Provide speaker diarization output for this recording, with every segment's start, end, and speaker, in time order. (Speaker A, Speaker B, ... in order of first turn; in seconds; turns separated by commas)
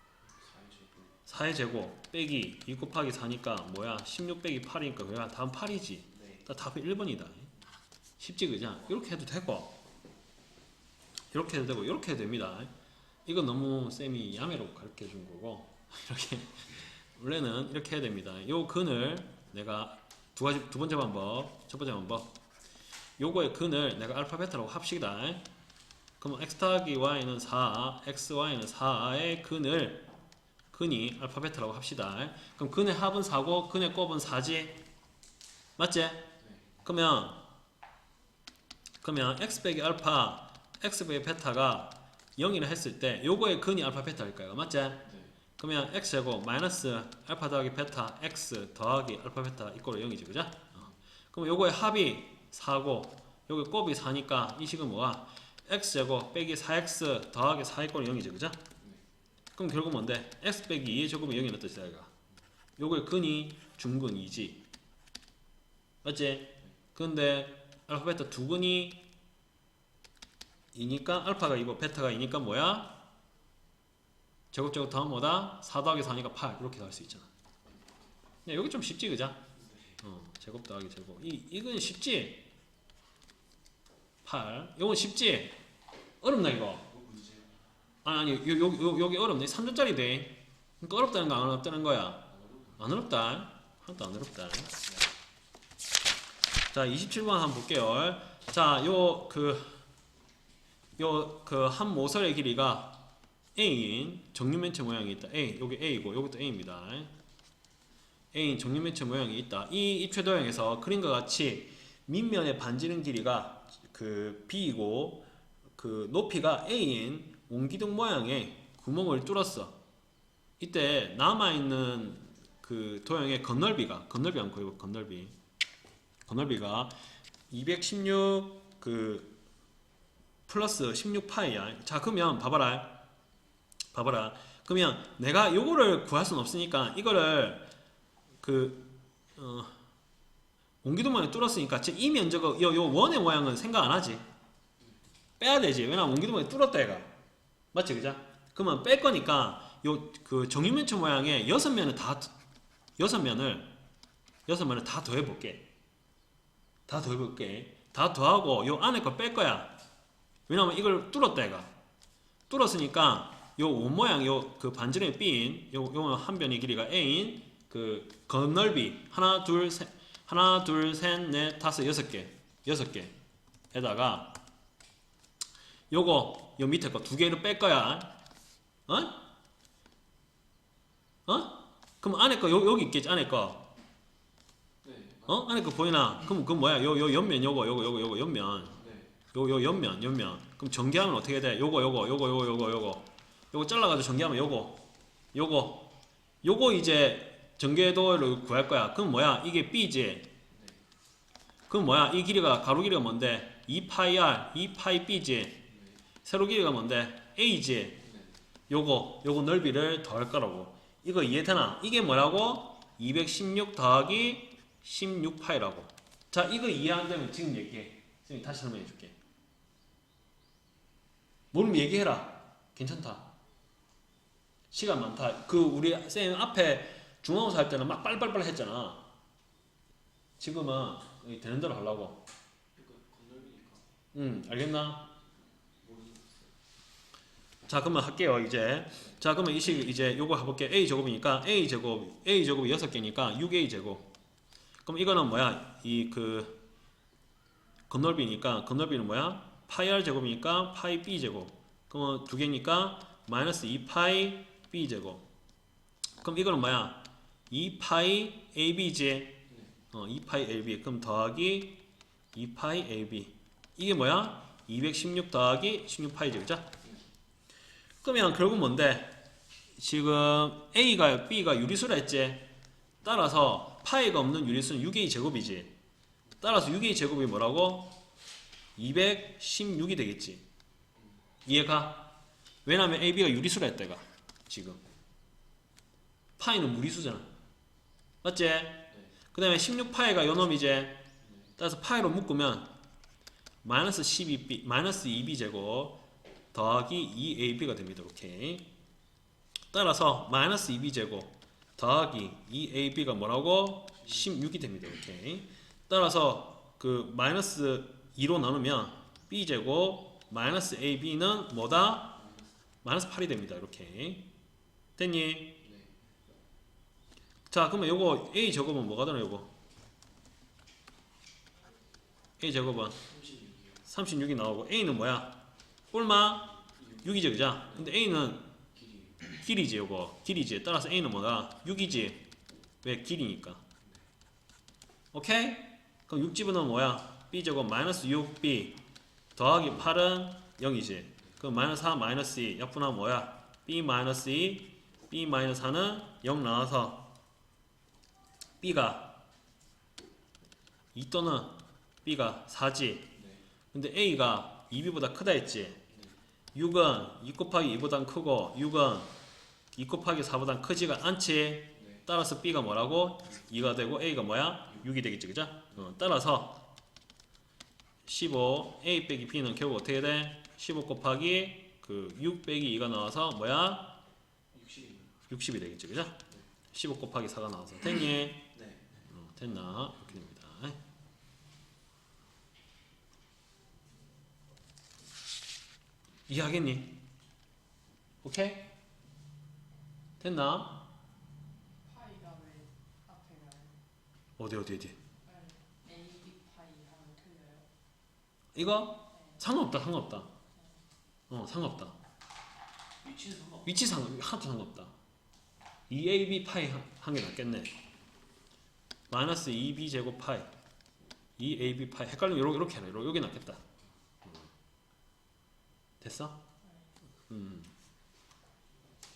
Speaker A: 0.3-1.1, Speaker B: 1.2-7.5, Speaker B: 8.2-9.8, Speaker B: 11.3-12.7, Speaker B: 13.3-22.4, Speaker B: 23.2-25.4, Speaker B: 26.2-30.1, Speaker B: 30.7-34.8, Speaker B: 35.8-36.3, Speaker B: 36.8-37.4, Speaker B: 39.0-58.6, Speaker A: 45.0-45.3, Speaker B: 59.6-62.1, Speaker B: 62.8-64.6, Speaker B: 66.0-69.1, Speaker B: 70.7-73.0, Speaker B: 74.5-77.3, Speaker B: 78.5-79.4, Speaker A: 79.6-80.0, Speaker B: 80.0-82.5, Speaker B: 84.2-85.6, Speaker B: 86.2-86.9, Speaker A: 86.9-87.5, Speaker B: 88.0-94.8, Speaker B: 96.7-99.8, Speaker B: 101.0-107.1, Speaker B: 108.3-119.8, Speaker B: 120.6-125.3, Speaker B: 126.3-126.9, Speaker B: 127.5-129.4, Speaker B: 130.5-133.0, Speaker B: 133.9-137.7, Speaker B: 138.4-139.8, Speaker B: 140.8-144.2, Speaker B: 145.4-147.1, Speaker B: 147.7-152.3, Speaker B: 153.0-153.7, Speaker B: 154.5-155.7, Speaker B: 156.9-159.8, Speaker B: 160.5-161.7, Speaker B: 162.5-173.2, Speaker B: 173.7-174.4, Speaker B: 175.9-178.2, Speaker B: 178.9-179.3, Speaker B: 181.3-183.7, Speaker A: 184.8-185.3, Speaker B: 185.3-188.8, Speaker A: 188.8-189.1, Speaker B: 189.3-200.3, Speaker A: 200.5-200.8, Speaker B: 201.7-205.7, Speaker A: 205.7-206.0, Speaker B: 206.2-208.0, Speaker A: 208.0-208.4, Speaker B: 208.7-219.2, Speaker B: 221.5-223.3, Speaker B: 224.7-229.1, Speaker B: 230.4-232.2, Speaker A: 232.8-233.8, Speaker B: 234.1-235.1, Speaker A: 235.8-236.5, Speaker B: 237.7-244.1, Speaker B: 244.8-246.6, Speaker B: 247.9-255.3, Speaker B: 256.2-266.7, Speaker B: 268.0-269.2, Speaker B: 269.8-275.8, Speaker B: 276.4-278.0, Speaker B: 278.8-280.4, Speaker B: 281.4-284.8, Speaker B: 286.4-287.3, Speaker B: 288.2-291.1, Speaker B: 291.6-292.8, Speaker B: 293.6-296.0, Speaker B: 296.5-298.7, Speaker B: 299.7-312.2, Speaker A: 312.2-312.5, Speaker B: 312.8-314.3, Speaker B: 315.0-315.6, Speaker A: 315.6-315.9, Speaker B: 317.5-319.5, Speaker B: 322.4-323.1, Speaker A: 323.1-323.8, Speaker B: 323.9-328.6, Speaker A: 328.8-329.1, Speaker B: 329.3-332.3, Speaker B: 332.8-333.6, Speaker B: 335.1-338.8, Speaker B: 339.4-347.1, Speaker B: 348.6-349.2, Speaker B: 350.9-353.1, Speaker A: 353.1-353.4, Speaker B: 353.7-355.8, Speaker B: 356.5-359.1, Speaker B: 359.7-366.7, Speaker B: 368.1-374.0, Speaker A: 374.5-375.1, Speaker B: 375.3-378.5, Speaker A: 378.5-378.9, Speaker B: 379.1-380.8, Speaker B: 386.3-387.0, Speaker B: 388.2-388.7, Speaker B: 390.2-390.9, Speaker C: 391.9-393.8, Speaker B: 394.4-395.0, Speaker C: 395.2-397.7, Speaker B: 398.6-400.3, Speaker B: 401.3-402.0, Speaker A: 403.0-403.6, Speaker B: 403.6-404.9, Speaker B: 405.9-407.7, Speaker B: 409.1-410.5, Speaker B: 411.4-413.6, Speaker B: 416.0-416.4, Speaker B: 417.3-417.7